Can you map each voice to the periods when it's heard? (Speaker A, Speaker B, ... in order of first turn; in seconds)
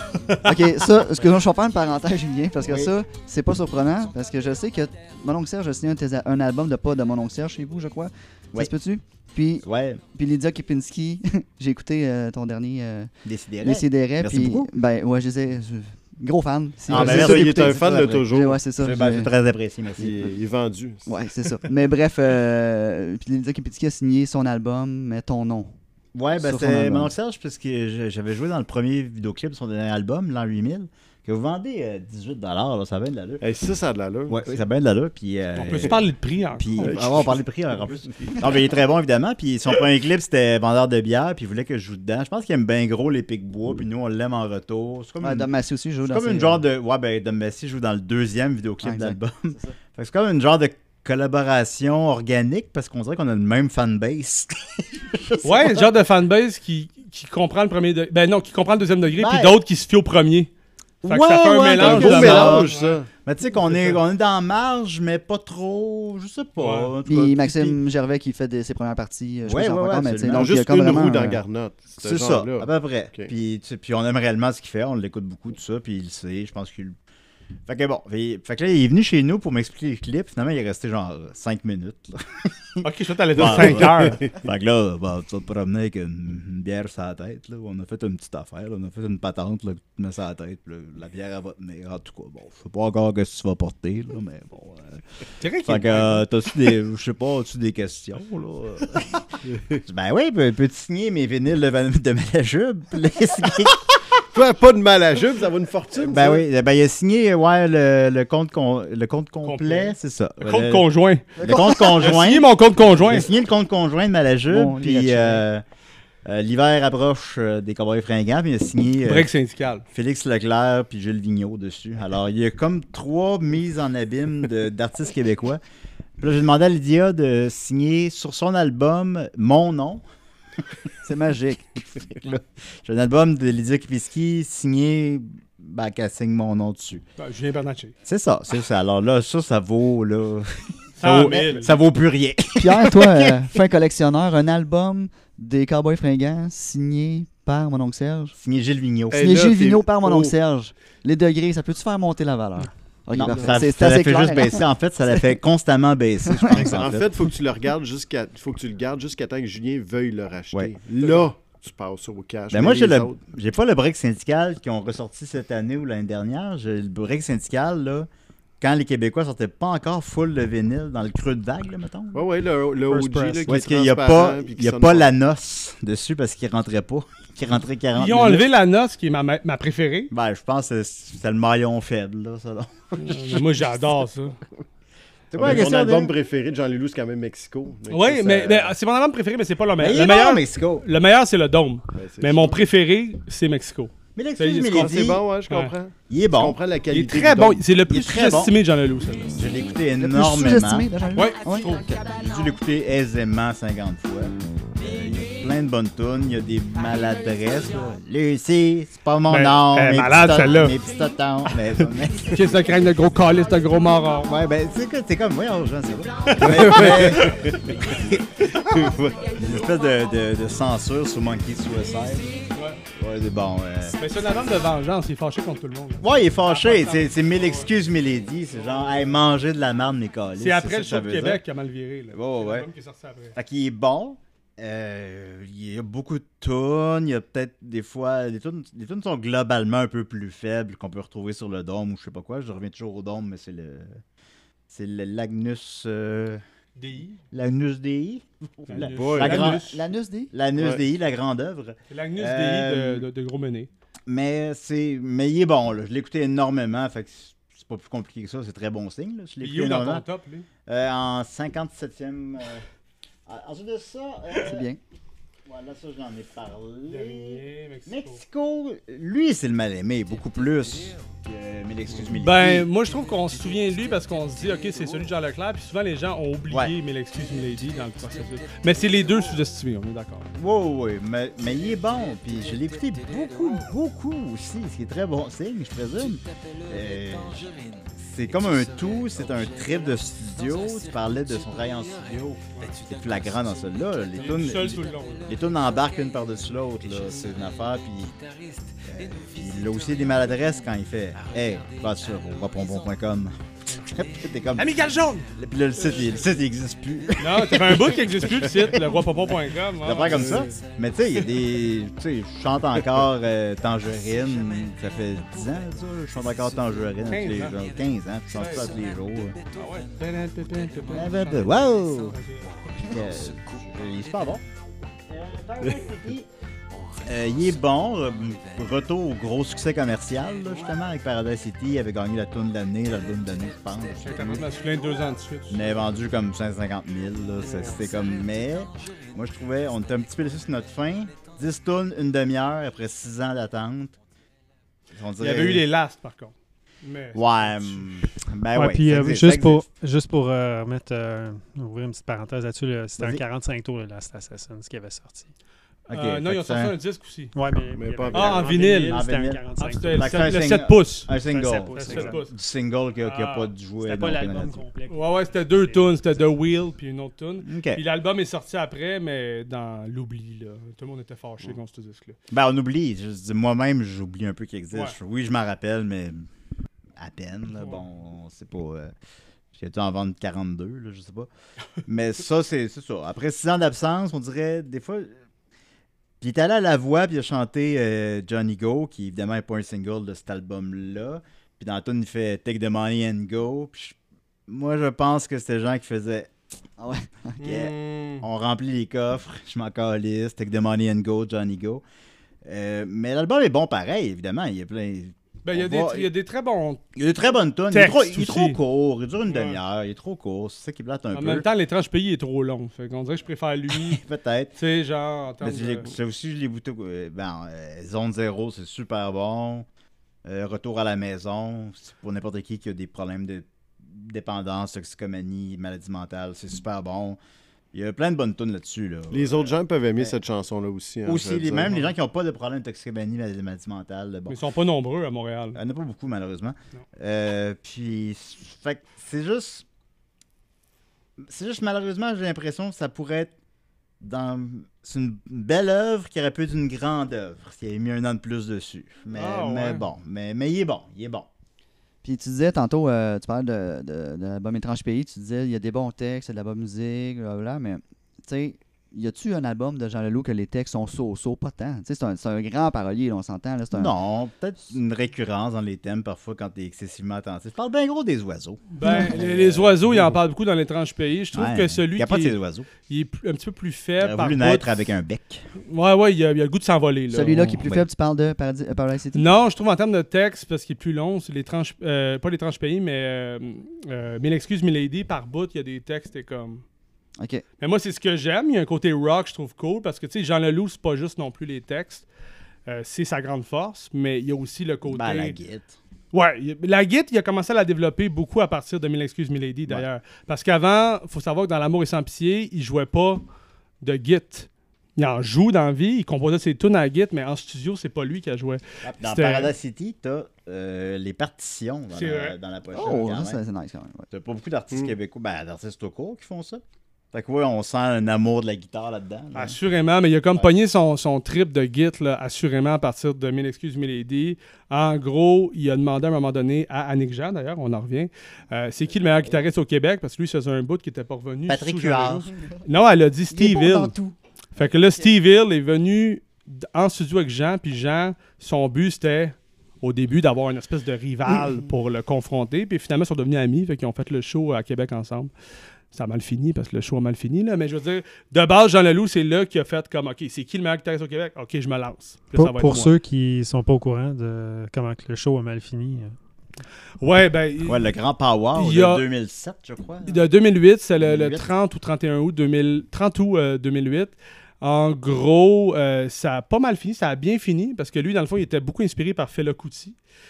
Speaker A: 0.1-0.5, 35.5-37.2, 55.4-60.5, 61.0-63.0, 63.6-64.0, 66.6-66.9, 82.8-84.2, 95.4-96.2, 109.4-113.3, 119.0-119.8, 137.2-137.9, 141.0-141.7, 172.9-173.4, 177.9-180.1, 183.0-184.4, 187.9-195.7, 196.9-199.5, 201.1-202.0, 209.3-210.8, 212.3-214.3, 216.2-217.6, 222.5-222.8, 224.0-227.7, 228.5-229.2, 230.4-233.3, 246.8-247.2, 248.7-249.8, 251.9-253.7, 259.4-260.5, 266.9-268.2, 272.1-280.3, 294.1-295.3, 304.6-305.3, 305.8-306.3, 307.2-310.6, 317.1-317.6, 318.3-318.7, 319.5-322.7, 334.0-335.9, 337.4-337.8, 345.2-348.0, 355.9-357.3, 358.1-362.3, 363.0-363.5, 364.9-372.2, 377.6-377.8, 397.4-398.2, 405.4-406.8, 407.7-408.6, 409.3-409.6, 411.1-414.0, 414.6-415.9, 434.3-435.6, 449.1-449.8, 468.7-474.7, 475.6-477.6, 479.1-486.6, 487.6-492.1, 492.7-495.4, 496.1-503.2, 503.8-509.5, 511.9-512.4, 519.3-534.0, 534.5-545.3, 545.9-553.0, 557.0-557.9, 558.5-559.0, 560.0-570.0
Speaker B: 0.4-19.3, 21.1-25.7, 26.4-27.1, 45.2-46.6, 48.8-49.2, 67.0-71.4, 111.4-112.0, 114.5-115.4, 131.0-131.8, 142.6-148.3, 149.1-154.6, 156.3-156.7, 199.9-201.8, 249.4-250.3, 264.4-264.8, 396.8-397.4, 452.0-463.9, 468.8-469.1, 477.1-479.3, 487.2-487.4, 512.7-514.1, 533.3-534.1
Speaker C: 2.6-2.9, 9.6-10.0, 13.2-14.7, 16.9-18.2, 18.8-20.2, 26.1-33.4, 34.3-45.5, 46.0-55.9, 59.2-59.6, 61.0-67.8, 69.4-70.5, 72.0-77.0, 77.7-99.2, 99.8-103.8, 106.0-110.8, 111.4-115.6, 116.2-119.3, 119.9-125.6, 126.2-130.0, 132.1-137.0, 138.1-143.5, 148.3-149.2, 153.1-157.1, 162.5-168.1, 168.6-172.2, 173.5-178.5, 180.1-183.4, 185.3-186.1, 189.8-190.8, 194.2-195.2, 196.1-196.6, 197.9-198.6, 199.3-200.9, 202.1-212.6, 214.2-222.4, 222.9-224.0, 226.0-231.4, 232.1-232.7, 233.3-244.0, 244.7-246.4, 247.3-249.7, 250.3-253.0, 254.1-260.0, 260.7-262.6, 263.2-264.6, 265.4-272.7, 280.3-304.8, 305.3-309.0, 309.8-319.4, 320.9-322.2, 322.8-324.4, 325.1-326.3, 327.0-334.5, 335.5-343.9, 344.9-345.6, 347.1-349.7, 355.9-356.7, 358.9-359.4, 359.9-364.6, 367.4-367.8, 372.3-376.3, 377.0-378.9, 379.5-381.3, 381.9-385.1, 386.2-396.3, 397.4-401.8, 402.4-406.1, 406.9-411.4, 413.7-414.6, 415.4-419.6, 420.2-427.2, 427.7-430.1, 431.1-434.4, 435.5-439.6, 441.2-443.3, 444.0-451.3, 463.7-470.2, 471.3-472.7, 474.0-475.5, 477.3-477.9, 494.9-495.8, 508.8-513.4, 514.1-519.6, 531.5-532.3, 557.6-560.2, 561.0-561.5
Speaker D: 16.9-18.6, 19.9-21.1, 33.4-34.5, 36.8-38.5, 61.8-63.1, 70.3-73.3, 104.3-106.4, 149.1-150.3, 153.2-153.6, 156.5-163.2, 172.1-175.1, 185.3-188.7, 191.9-192.6, 194.7-197.7, 216.5-217.1, 248.7-249.5, 250.6-250.8, 357.7-358.6, 429.1-431.9
Speaker E: 348.5-355.3, 357.3-360.3, 361.1-362.2, 363.8-366.0, 552.3-556.1